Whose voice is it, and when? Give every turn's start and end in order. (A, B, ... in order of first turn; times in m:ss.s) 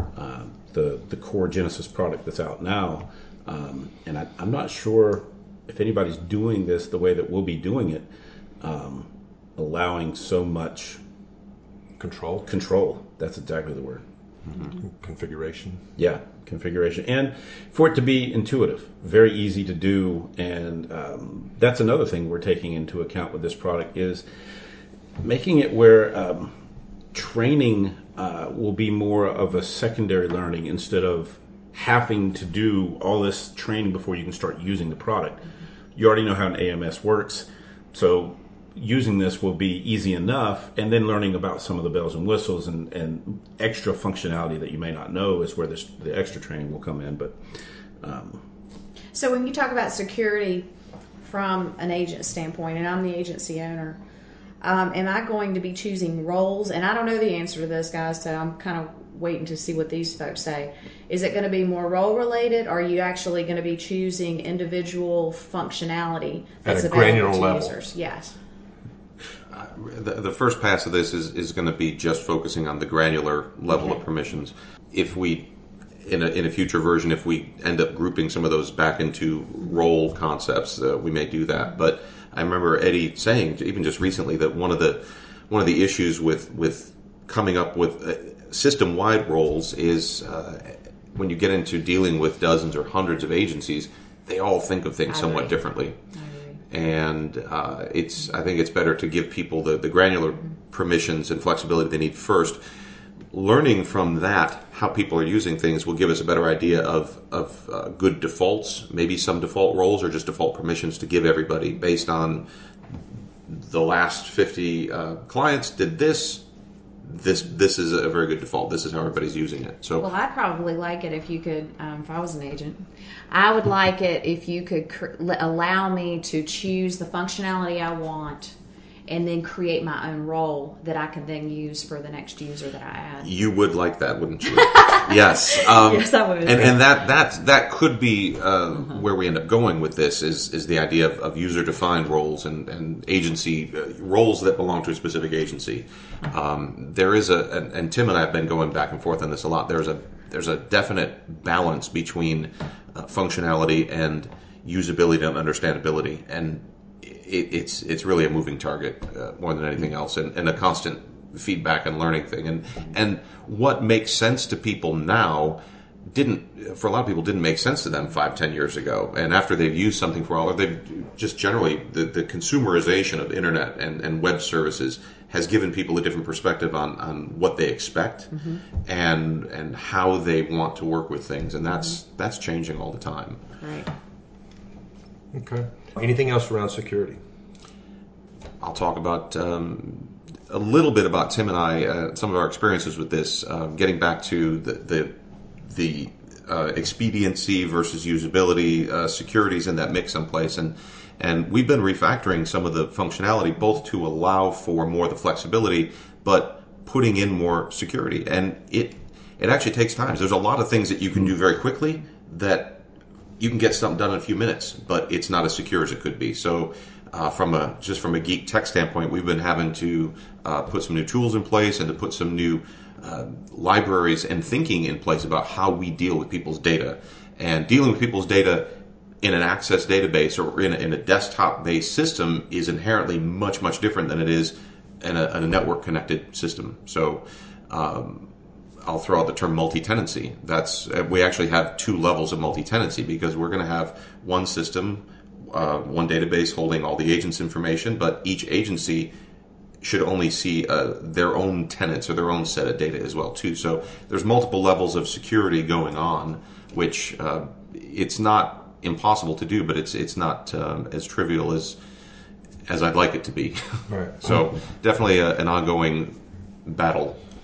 0:00.1-0:08.1 A
0:08.6-0:11.0 A
0:12.0-0:12.5 B
0:12.5-0:14.0 A
0:14.7-0:15.8 B
0:16.0-0:24.2 A
0:25.2-0:26.5 A
0:27.1-0:47.4 A
0:48.0-0:48.4 A
0:49.1-0:50.7 C
0:51.2-0:54.0 C
0:54.6-1:08.4 C
1:06.6-1:07.7 B
1:09.5-1:15.5 D
1:16.0-1:36.0 D
1:35.1-1:35.5 C
1:36.1-1:36.6 C
1:36.7-1:42.6 D
1:43.3-1:52.4 D
1:53.5-1:56.4 D
1:57.0-2:00.0 D
2:00.0-2:08.5 C
2:09.1-2:13.3 C
2:13.2-2:58.3 D
2:14.6-2:16.7 C
2:58.3-2:58.6 C
2:58.8-3:03.4 D
3:03.6-3:03.9 C
3:05.3-3:07.2 B
3:08.6-3:32.8 D
3:33.4-3:58.3 D
3:58.8-4:09.1 D
4:09.8-4:21.8 D
4:22.6-4:27.2 D
4:23.9-4:24.2 B